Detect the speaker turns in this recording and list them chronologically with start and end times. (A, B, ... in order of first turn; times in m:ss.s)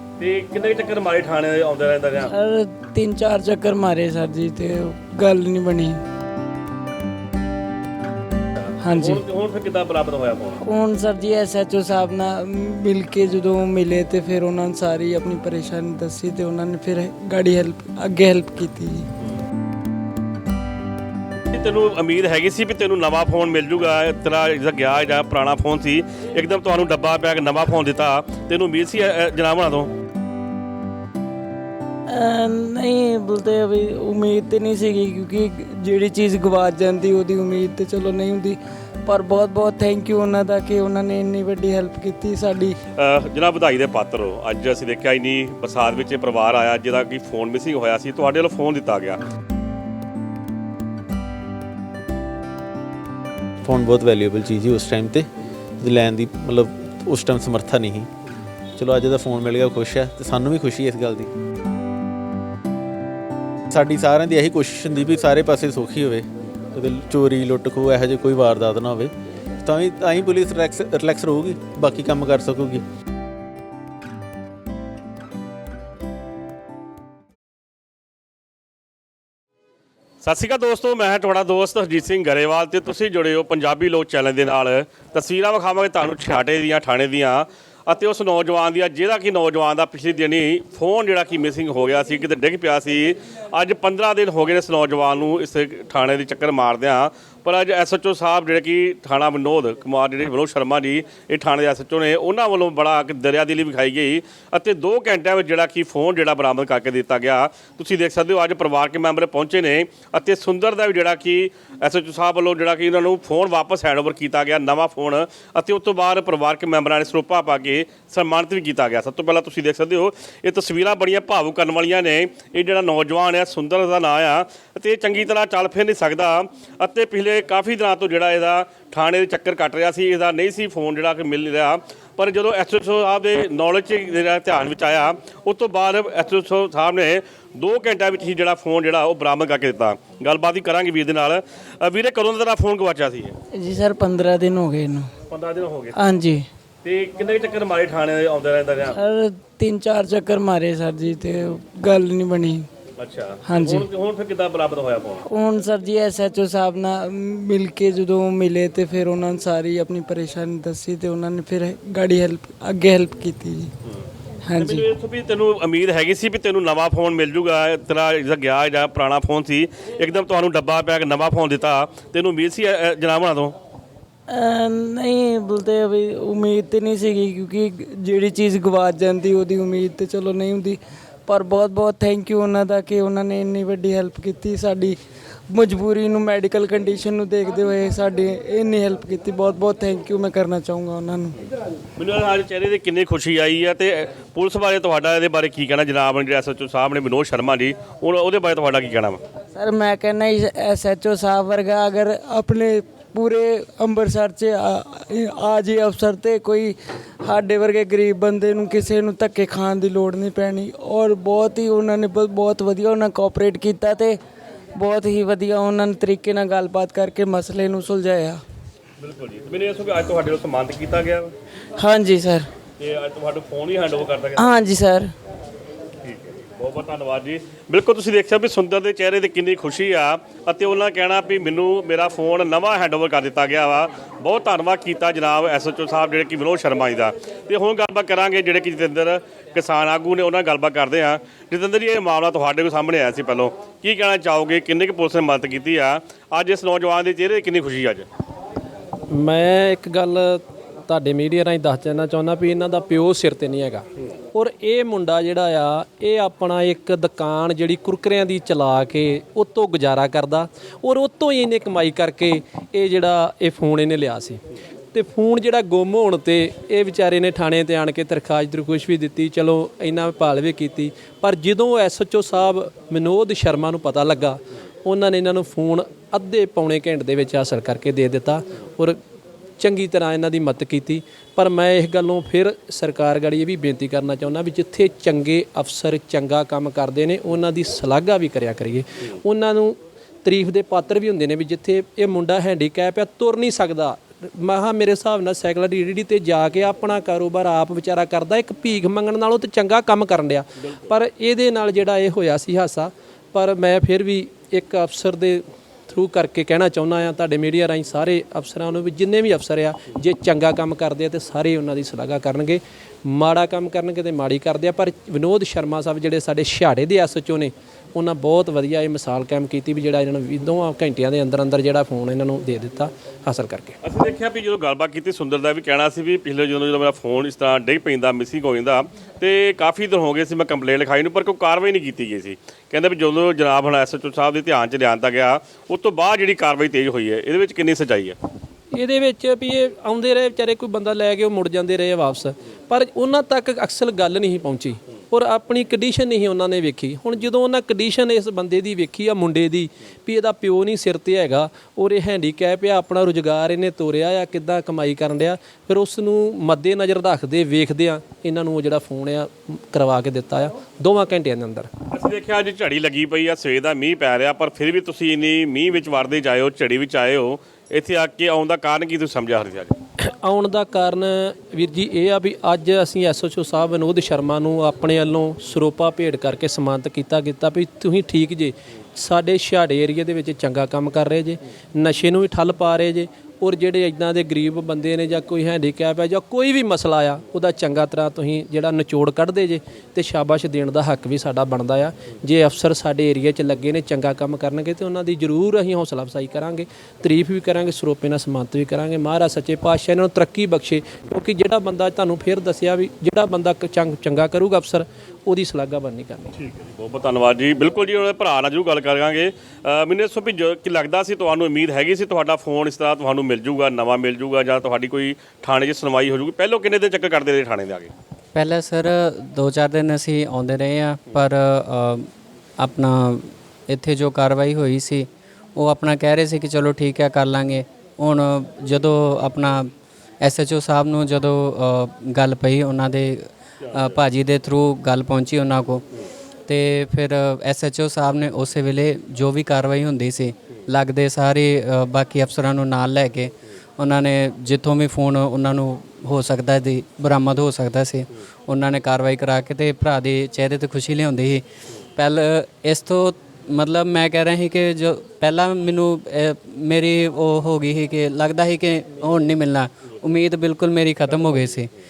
0:00.2-0:02.3 A
0:02.2-0:06.0 B
0:08.8-0:09.2 B
0:08.9-0:10.6 A
0:10.6-0:19.1 B
0:21.5-0:29.9 A
0:32.1-0:42.8 B
0:43.0-0:49.2 A
0:53.6-0:55.3 C
0:55.8-0:58.1 C
0:58.8-1:01.3 C
1:03.7-1:09.1 C
1:09.6-1:12.8 C
1:20.2-2:23.4 A
2:23.5-2:25.1 B
2:25.3-2:26.0 A
2:26.0-2:26.5 B
2:26.8-2:29.0 A
2:29.0-2:32.7 B
2:33.0-2:35.2 A
2:33.5-2:33.9 B
2:35.3-2:43.7 B
2:44.4-2:44.9 B
2:44.6-2:53.6 A
2:54.3-3:11.4 B
3:12.0-3:19.2 A
3:19.5-3:34.2 B
3:34.8-3:38.4 B
3:39.0-3:41.3 A
3:41.8-3:42.5 B
3:42.8-3:44.6 A
3:44.4-3:45.1 B
3:46.0-4:08.1 A
4:09.1-4:24.4 D
4:24.9-4:39.0 D
4:39.6-5:23.8 D
5:23.8-5:38.2 A
5:38.7-6:01.7 D
6:01.9-6:09.8 A
6:10.0-6:46.4 D
6:46.4-6:57.9 A
6:58.3-7:02.1 E
7:02.6-7:09.7 E
7:10.2-7:15.8 E
7:16.5-7:31.4 E
7:32.0-7:41.7 E